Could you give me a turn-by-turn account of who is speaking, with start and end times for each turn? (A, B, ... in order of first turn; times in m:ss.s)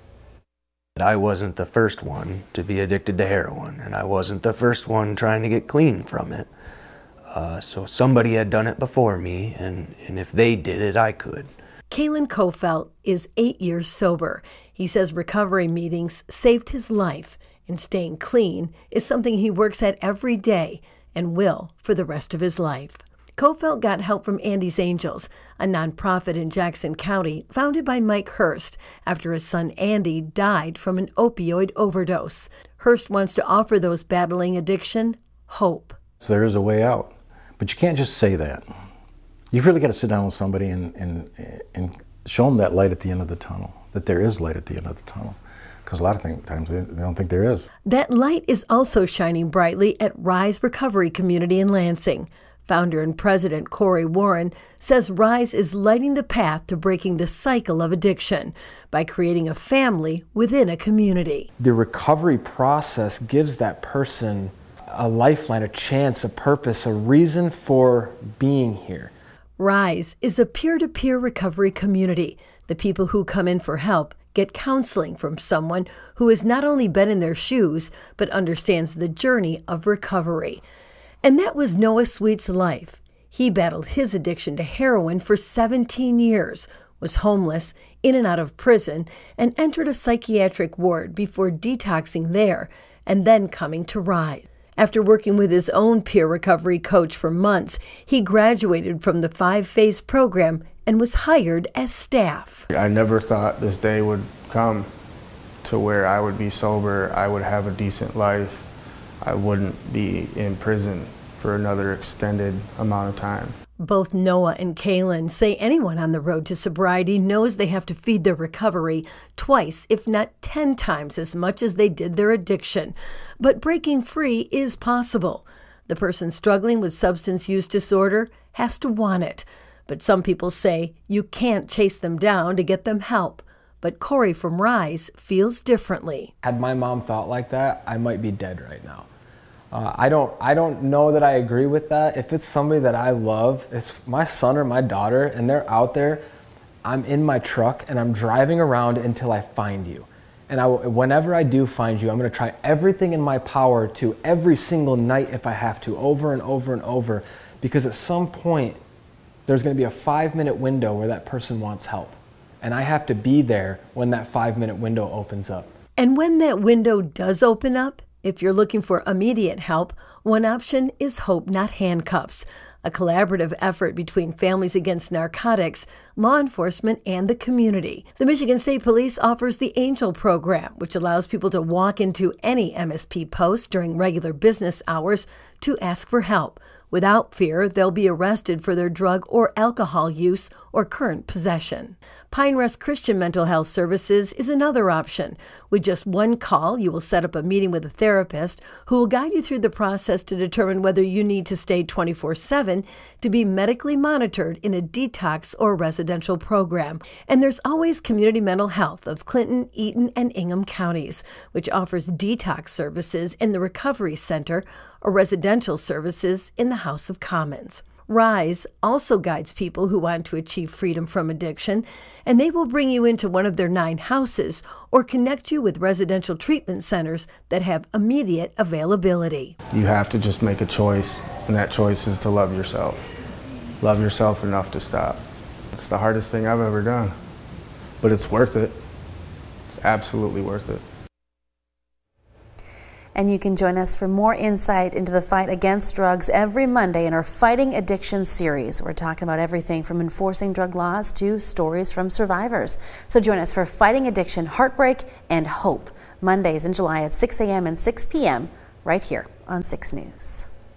0:01.0-0:06.5 A
0:07.3-0:11.5 A
0:11.9-0:36.0 B
0:36.2-0:38.7 C
0:39.5-0:47.7 C
0:47.9-1:01.5 B
1:01.6-1:09.1 D
1:09.6-1:20.6 B
1:21.2-1:42.7 B
1:42.7-1:44.9 E
1:45.6-1:48.7 E
1:49.2-1:53.6 E
1:53.8-2:16.3 B
2:16.4-2:19.1 D
2:19.7-2:26.2 D
2:26.8-2:38.8 D
2:39.5-2:45.7 D
2:46.0-3:49.6 B
3:49.7-3:53.0 E
3:53.8-3:55.2 E
3:55.7-3:57.1 E
3:58.0-3:58.8 E
3:59.7-4:00.8 E
4:03.2-4:20.5 F